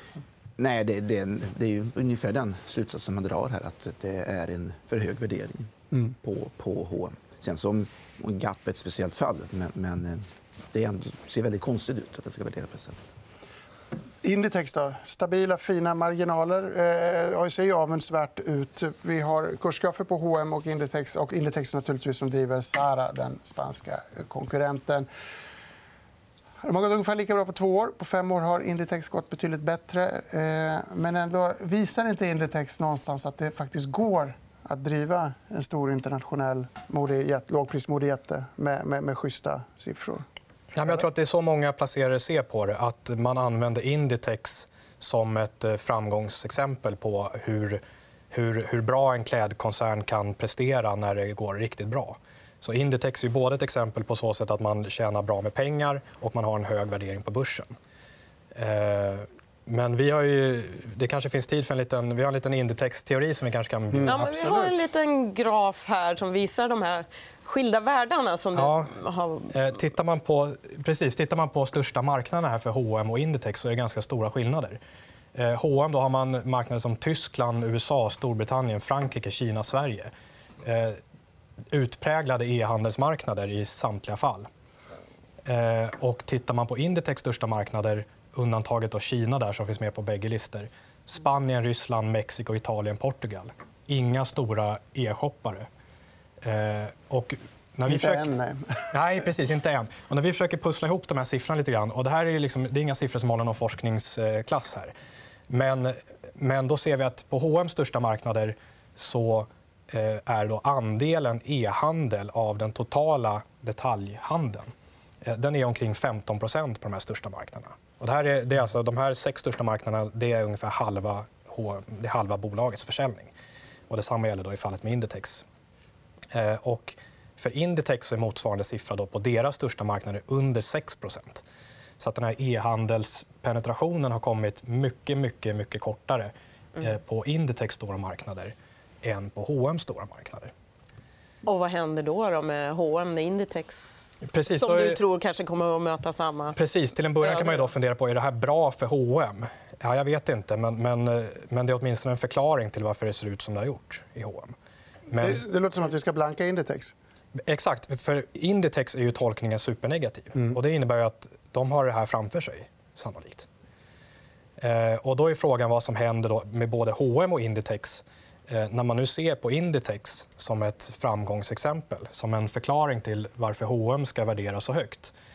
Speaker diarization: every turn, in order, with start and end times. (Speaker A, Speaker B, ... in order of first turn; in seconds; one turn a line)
Speaker A: 0.6-5.7
Speaker A: 6.2-13.0
Speaker B: 14.2-25.1
Speaker B: 26.6-40.2
Speaker C: 40.7-57.7
Speaker C: 58.5-64.7
Speaker B: 63.9-64.7
Speaker D: 64.1-69.5
Speaker C: 68.6-68.9
Speaker C: 69.5-74.8
Speaker C: 75.3-80.1
Speaker C: 80.6-81.0
Speaker C: 81.7-84.5
Speaker C: 85.5-95.7
Speaker C: 96.4-98.3
Speaker B: 97.9-98.9
Speaker C: 98.9-104.9
Speaker C: 105.5-114.7
Speaker C: 115.2-123.3
Speaker C: 123.9-125.5
Speaker C: 126.3-131.4
Speaker C: 132.0-140.5
Speaker D: 141.4-146.6
Speaker C: 144.2-145.0
Speaker C: 146.6-154.5
Speaker D: 147.2-147.7
Speaker C: 155.1-155.4
Speaker B: 155.2-156.9
Speaker C: 157.4-163.5
Speaker C: 164.6-175.1